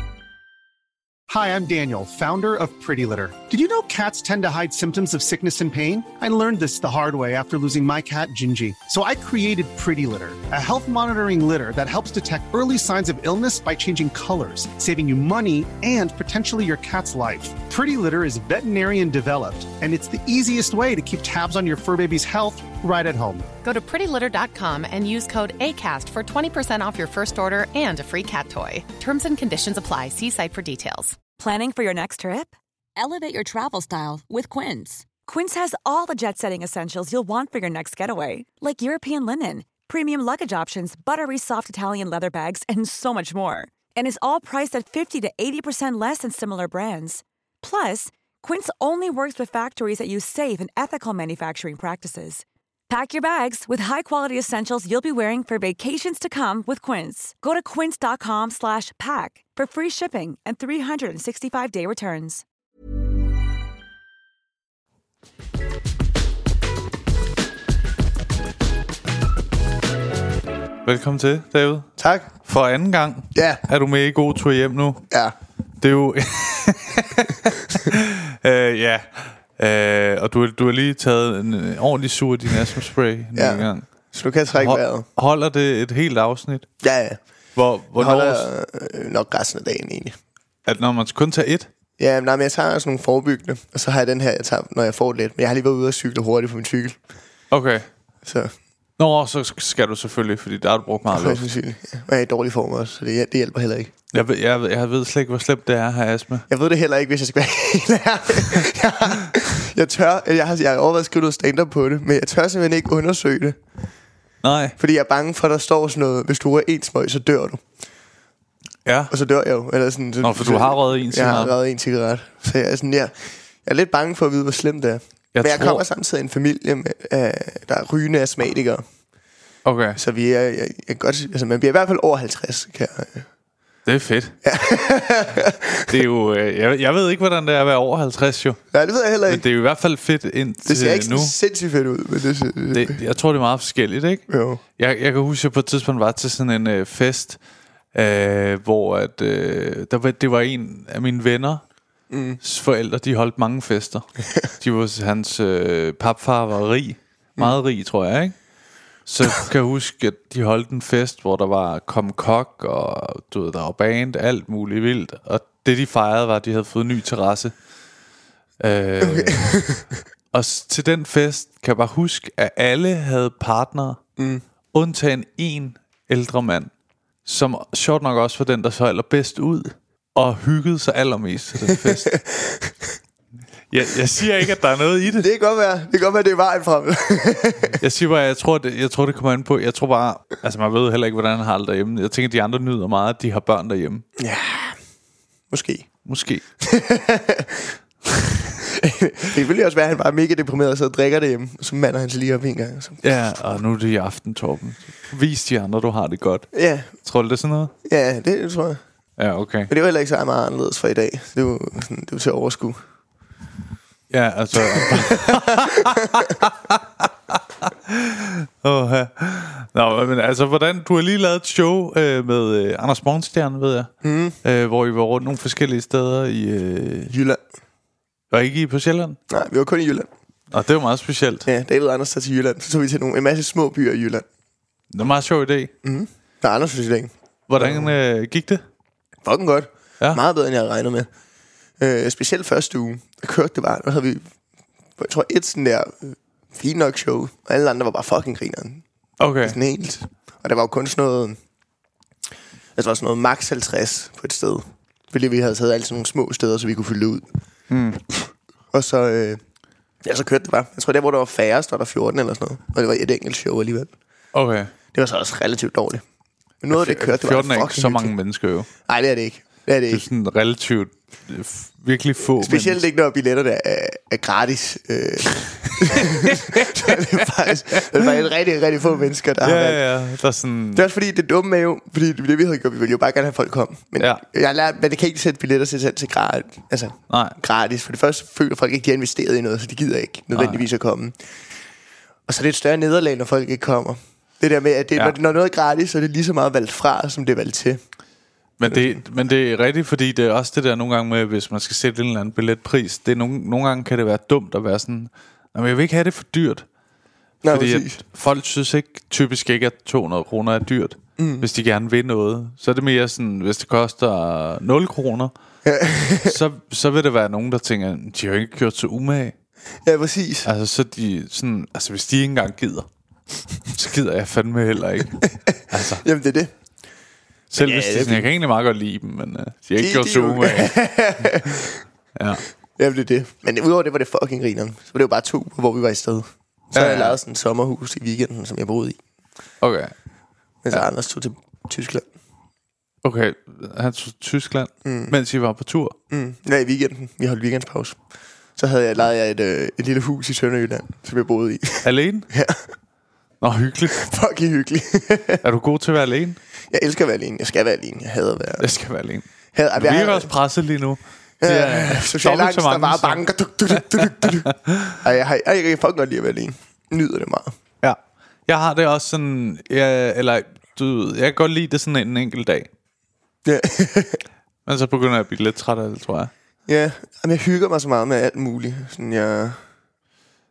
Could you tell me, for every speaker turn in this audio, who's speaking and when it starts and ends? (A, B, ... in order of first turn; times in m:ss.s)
0:01.3-0:23.5 A
0:23.6-0:31.2 B
0:31.4-1:02.4 C
1:10.8-1:15.0 D
1:12.0-1:12.3 E
1:13.3-1:13.6 E
1:15.8-1:23.8 D
1:23.4-1:25.1 E
1:24.6-1:26.7 D
1:26.8-1:27.2 E
1:27.6-1:28.5 D
1:28.0-1:30.2 E
1:30.7-1:31.7 D
1:32.0-1:37.0 E
1:37.5-1:37.9 D
1:38.2-1:38.5 E
1:39.0-1:41.5 D
1:41.0-1:43.9 E
1:44.1-1:46.5 D
1:46.5-1:53.6 E
1:54.4-1:54.8 D
1:54.8-1:57.6 E
1:58.9-1:59.1 D
1:59.1-2:08.8 E
2:00.2-2:01.6 D
2:05.3-2:05.8 D
2:09.6-2:10.0 D
2:10.0-2:13.3 E
2:13.9-2:14.4 D
2:14.4-2:16.0 E
2:15.9-2:18.6 D
2:18.7-2:19.4 E
2:19.3-2:21.4 D
2:20.6-2:23.0 E
2:22.7-2:24.2 D
2:24.3-2:24.6 E
2:24.8-2:27.4 D
2:27.9-2:31.6 D
2:32.1-2:32.4 E
2:32.4-2:38.4 D
2:39.1-2:47.5 D
2:48.6-2:49.4 D
2:49.0-2:49.9 E
2:50.3-2:54.0 D
2:54.2-2:54.4 E
2:54.7-2:56.7 D
2:57.3-3:02.1 D
3:01.7-3:02.9 E
3:03.7-3:05.3 D
3:05.1-3:07.8 E
3:07.8-3:14.0 D
3:14.2-3:14.8 E
3:15.5-3:15.9 E
3:16.0-3:16.4 D
3:16.6-3:23.0 E
3:23.0-3:26.5 D
3:26.5-3:26.9 E
3:27.0-3:27.7 D
3:27.8-3:28.8 E
3:29.2-3:29.7 D
3:29.7-3:32.8 E
3:34.1-3:43.9 D
3:34.5-3:36.3 E
3:44.0-3:44.4 E
3:44.4-3:47.1 D
3:47.1-3:47.4 E
3:48.3-3:49.2 D
3:49.3-3:50.1 E
3:50.5-3:51.5 D
3:51.4-3:54.2 E
3:54.9-3:55.7 D
3:55.8-3:57.9 E
3:57.5-3:58.6 D
3:59.2-4:01.1 E
4:01.8-4:04.2 E
4:05.0-4:08.8 E
4:09.2-4:09.6 D
4:09.4-4:11.4 E
4:12.8-4:17.3 E
4:17.7-4:18.0 D
4:18.1-4:19.4 E
4:20.0-4:23.9 E
4:24.3-4:24.7 D
4:24.9-4:26.0 E
4:26.6-4:28.1 E
4:26.7-4:28.7 D
4:28.9-4:30.0 E
4:29.9-4:32.8 D
4:32.4-4:39.8 E
4:35.8-4:38.2 D
4:39.4-4:40.8 D
4:40.8-4:51.2 E
4:47.1-4:47.4 D
4:50.3-4:50.6 D
4:52.3-4:57.8 E
4:58.6-5:06.7 D
4:58.7-4:59.0 E
5:07.4-5:08.0 E
5:07.5-5:15.3 D
5:11.2-5:11.5 E
5:15.6-5:16.4 E
5:16.2-5:19.4 D
5:19.8-5:20.5 E
5:20.4-5:22.9 D
5:23.7-5:26.0 D
5:25.2-5:26.5 E
5:27.5-5:30.8 D
5:27.6-5:28.3 E
5:29.8-5:31.8 E
5:32.2-5:32.4 D
5:32.8-5:39.0 E
5:36.7-5:37.2 D
5:39.6-5:39.9 D
5:40.6-5:42.1 E
5:43.0-5:46.0 D
5:44.8-5:45.2 E
5:46.1-5:48.0 E
5:48.6-5:52.7 E
5:51.8-5:52.3 D
5:53.4-5:54.0 D
5:53.9-5:55.4 E
5:55.4-5:56.4 D
5:56.7-5:58.7 E
5:58.6-6:05.0 D
5:59.5-6:00.3 E
6:01.4-6:04.5 E
6:05.0-6:07.5 E
6:07.8-6:12.7 D
6:13.4-6:14.2 E
6:14.7-6:16.3 D
6:16.7-6:19.6 E